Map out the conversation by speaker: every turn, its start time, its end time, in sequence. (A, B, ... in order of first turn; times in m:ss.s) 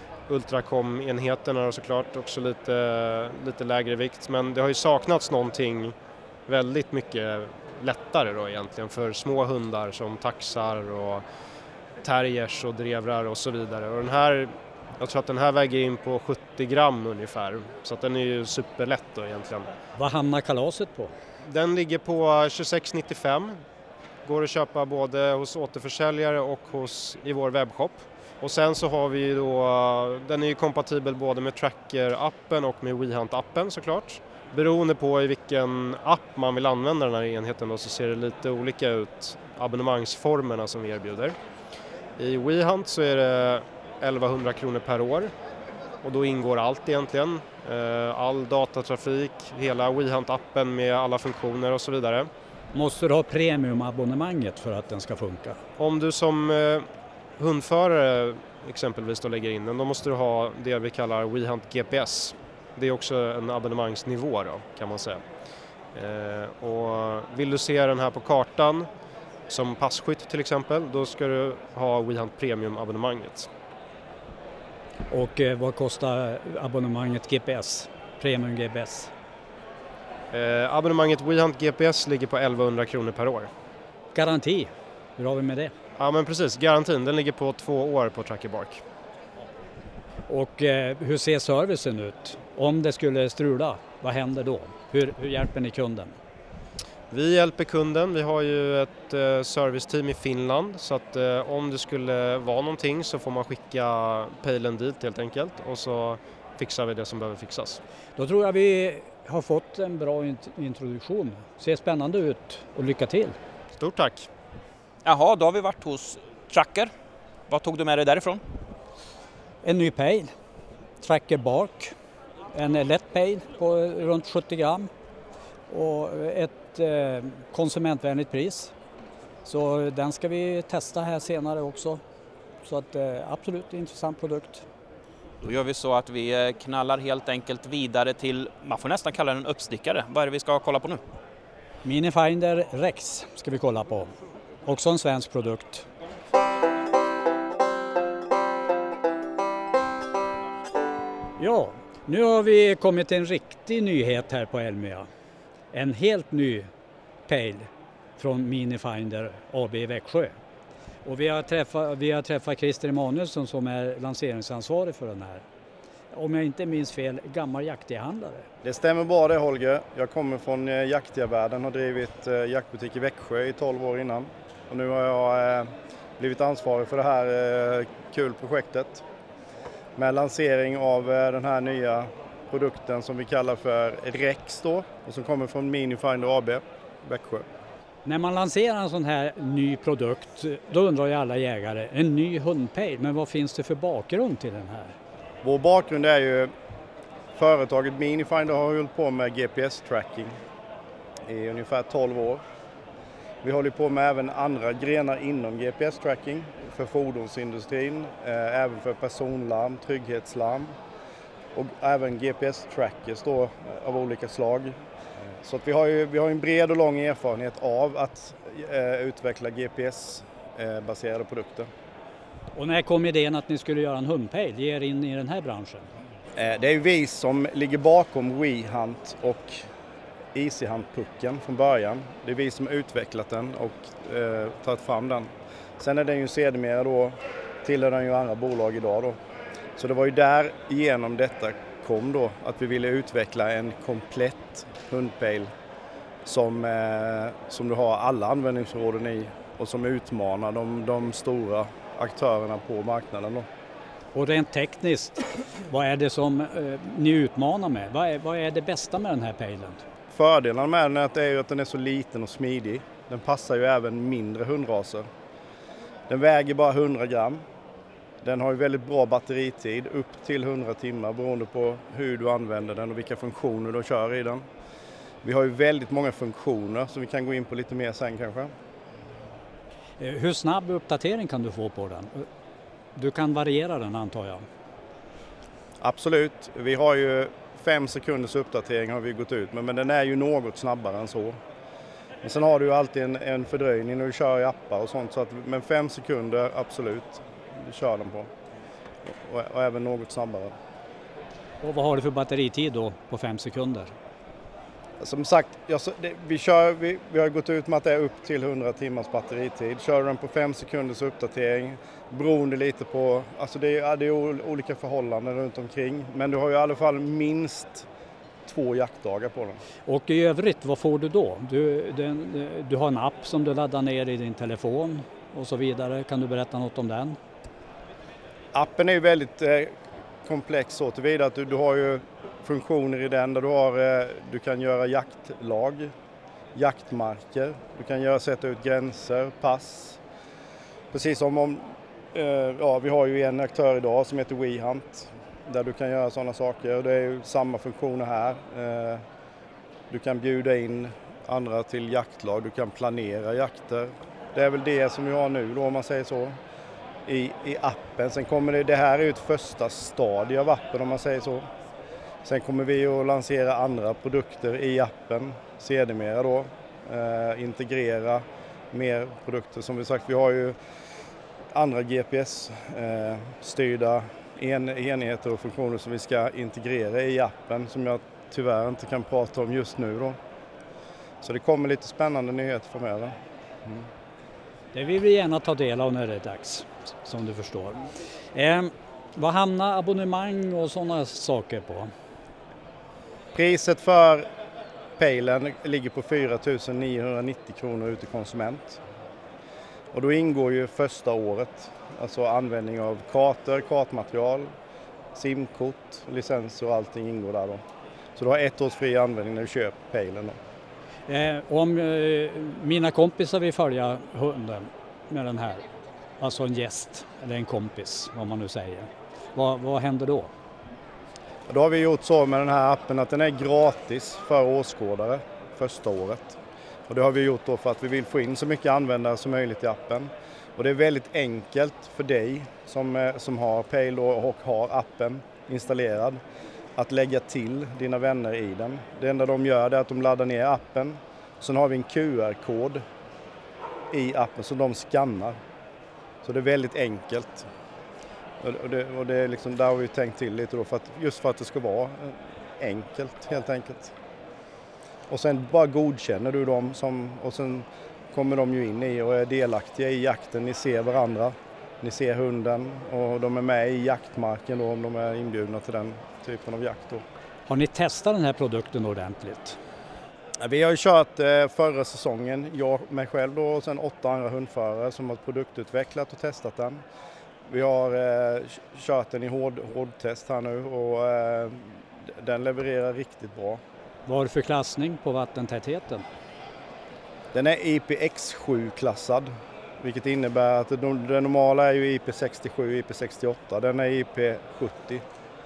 0:00.3-0:06.0 A
0:06.5-0:11.2 A
0:12.0-0:19.7 A
0:20.0-0:21.1 B
0:21.5-0:23.6 A
0:24.2-0:41.4 A
0:42.2-0:45.3 A
0:46.0-0:52.3 A
0:52.7-0:55.6 B
0:55.8-0:56.9 A
0:57.4-1:05.2 A
1:05.9-1:08.9 A
1:09.5-1:13.5 A
1:15.1-1:19.1 B
1:20.3-1:23.5 A
1:24.2-1:25.7 B
1:26.0-1:28.8 A
1:30.3-1:36.2 B
1:37.1-1:47.8 A
1:48.2-1:53.4 B
1:53.8-1:54.3 A
1:55.0-1:56.9 C
1:57.5-1:58.4 C
1:59.6-2:00.3 B
2:01.0-2:01.9 B
2:02.5-2:04.9 B
2:05.7-2:08.7 B
2:09.4-2:12.0 B
2:12.6-2:14.6 B
2:15.4-2:21.0 C
2:21.8-2:24.1 B
2:24.7-2:25.9 B
2:31.4-2:35.1 B
2:35.7-2:36.7 B
2:37.3-2:40.3 B
2:41.0-2:45.4 B
2:46.1-2:48.5 B
2:48.6-2:59.0 D
3:00.0-3:07.5 D
3:08.0-3:14.9 B
3:15.4-3:16.5 D
3:17.4-3:20.4 D
3:21.3-3:22.4 D
3:23.4-3:30.8 D
3:31.6-3:34.8 D
3:35.4-3:41.7 D
3:42.6-3:45.9 B
3:46.4-3:49.6 D
3:50.4-3:59.2 D
3:59.8-4:05.5 D
4:06.3-4:13.5 D
4:14.2-4:19.8 B
4:20.1-4:25.1 D
4:26.1-4:27.4 D
4:28.2-4:34.4 D
4:35.2-4:38.5 D
4:40.0-4:42.3 B
4:43.0-4:44.4 B
4:45.8-4:51.4 D
4:52.2-4:58.3 D
4:59.1-5:00.5 D
5:01.6-5:03.9 B
5:05.0-5:17.9 D
5:18.5-5:19.6 D
5:19.9-5:27.2 B
5:28.5-5:29.7 D
5:30.2-5:35.9 D
5:36.6-5:40.0 D
5:40.9-5:49.0 D
5:49.9-5:56.4 D
5:57.1-6:01.5 D
6:02.2-6:10.6 D
6:11.5-6:20.2 D
6:21.2-6:23.1 D
6:24.7-6:31.9 B
6:33.4-6:34.3 D
6:35.0-6:38.8 D
6:39.9-6:44.5 D
6:45.2-6:47.6 D
6:48.2-6:50.4 D
6:51.1-6:55.6 B
6:56.2-7:00.3 B
7:01.5-7:16.2 D
7:16.8-7:22.8 D
7:23.9-7:25.4 D
7:26.2-7:27.5 D
7:28.4-7:33.9 D
7:35.1-7:47.0 D
7:47.5-7:49.6 B
7:50.4-7:56.8 D
7:57.5-8:03.6 D
8:04.1-8:06.1 B
8:07.3-8:15.0 D